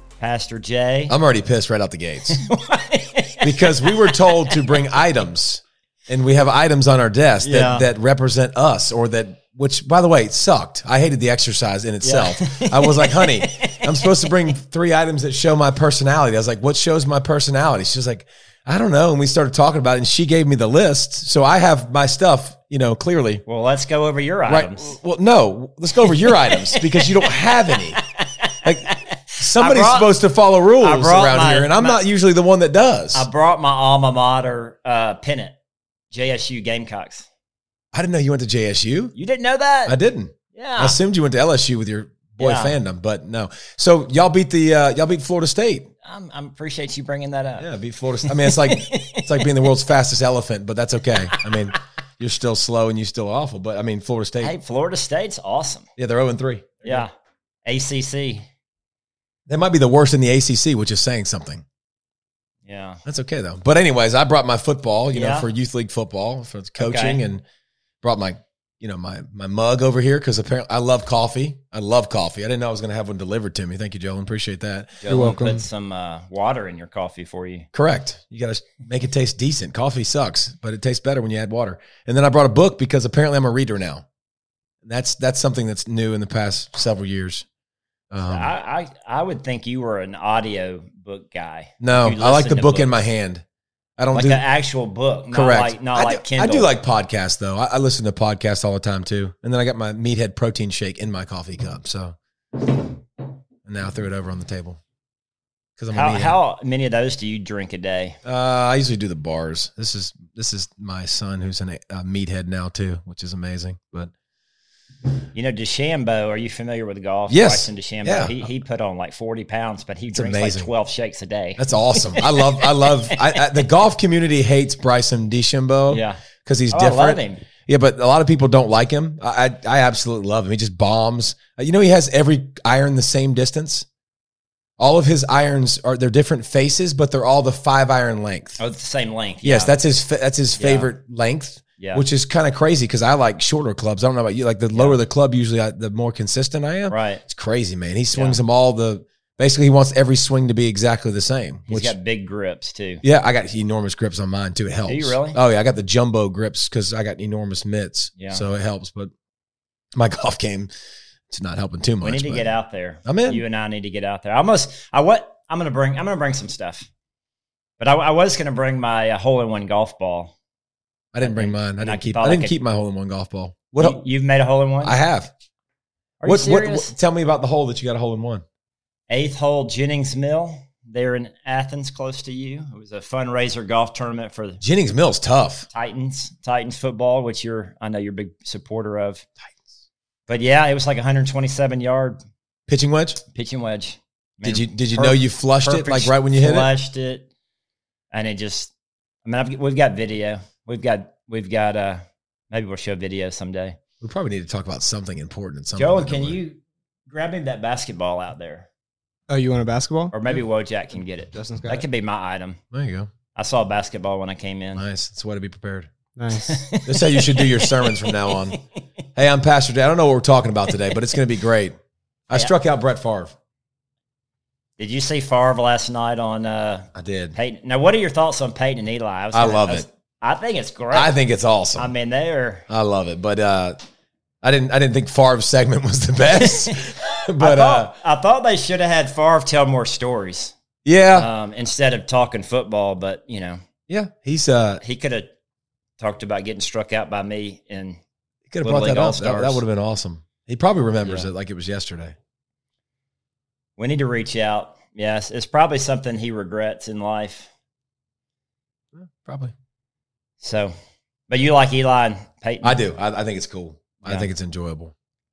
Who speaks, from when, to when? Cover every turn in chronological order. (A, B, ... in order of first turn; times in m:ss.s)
0:00.2-0:01.1 A
0:01.1-0:02.4 B
0:02.3-0:04.8 A
0:03.4-0:23.4 B
0:07.4-0:07.9 A
0:12.0-0:14.3 A
0:23.4-0:25.0 A
0:24.5-0:28.0 B
0:26.0-0:30.1 A
0:28.6-0:33.3 B
0:30.8-0:32.0 A
0:33.1-0:35.5 A
0:36.1-0:37.3 A
0:37.9-0:39.1 B
0:39.1-0:40.0 A
0:39.8-0:45.9 B
0:40.5-0:41.0 A
0:42.4-0:42.8 A
0:46.0-0:47.7 A
0:47.6-0:54.5 B
0:48.2-0:49.5 A
0:51.2-0:51.8 A
0:54.4-0:55.9 A
0:56.0-0:57.1 B
0:56.8-0:57.1 A
0:57.6-0:58.4 A
0:59.5-1:01.6 B
1:02.6-1:03.0 A
1:03.0-1:07.4 B
1:05.1-1:05.5 A
1:06.8-1:07.2 A
1:08.0-1:15.2 B
1:15.0-1:17.7 A
1:15.1-1:15.6 C
1:17.7-1:24.0 B
1:24.8-1:27.4 B
1:28.1-1:28.5 B
1:28.3-1:33.1 A
1:31.8-1:33.4 B
1:34.0-1:34.4 B
1:34.1-1:36.7 A
1:35.3-1:42.9 B
1:43.6-1:44.8 B
1:45.8-1:46.4 B
1:45.9-1:48.2 A
1:48.2-1:54.1 B
1:55.3-2:03.6 A
1:57.3-1:58.4 B
2:00.1-2:00.7 B
2:01.6-2:13.9 B
2:05.9-2:07.4 A
2:14.8-2:18.6 B
2:18.6-2:19.7 A
2:19.4-2:31.9 B
2:20.6-2:20.9 A
2:21.8-2:22.0 A
2:26.9-2:27.2 A
2:28.1-2:28.4 A
2:31.7-2:33.0 A
2:33.0-2:39.1 B
2:34.9-2:35.4 A
2:38.2-2:38.4 A
2:39.9-2:40.7 B
2:41.3-2:42.5 B
2:42.0-2:46.9 A
2:43.0-2:43.4 B
2:47.8-2:50.3 A
2:51.1-2:54.0 B
2:51.2-2:52.6 A
2:53.8-2:55.0 A
2:54.8-2:55.3 B
2:56.2-2:56.9 A
2:56.2-2:58.4 B
2:59.1-3:04.6 A
3:04.6-3:05.7 B
3:05.7-3:09.2 A
3:10.3-3:12.2 A
3:12.7-3:13.2 B
3:13.3-3:17.2 A
3:14.4-3:16.7 B
3:18.1-3:18.7 A
3:19.2-3:23.8 A
3:24.0-3:26.4 B
3:25.8-3:28.7 A
3:29.3-3:30.4 C
3:30.1-3:32.6 A
3:31.3-3:31.8 C
3:32.7-3:33.1 B
3:33.3-3:34.8 A
3:34.8-3:35.9 B
3:36.2-3:36.6 C
3:36.4-3:38.6 A
3:36.8-3:38.6 B
3:39.2-3:41.8 B
3:42.3-3:43.3 B
3:44.8-3:51.1 A
3:46.9-3:47.4 B
3:49.3-3:49.9 B
3:50.9-3:51.9 B
3:51.8-3:52.7 A
3:52.7-3:53.8 B
3:54.4-3:57.9 B
3:56.3-4:00.5 A
4:00.8-4:01.3 B
4:01.2-4:03.6 A
4:03.9-4:04.8 B
4:04.8-4:05.3 A
4:06.0-4:08.0 A
4:08.5-4:12.1 B
4:08.6-4:09.6 A
4:13.8-4:17.5 A
4:18.9-4:19.5 B
4:20.4-4:20.7 A
4:21.3-4:22.8 A
4:22.6-4:24.9 B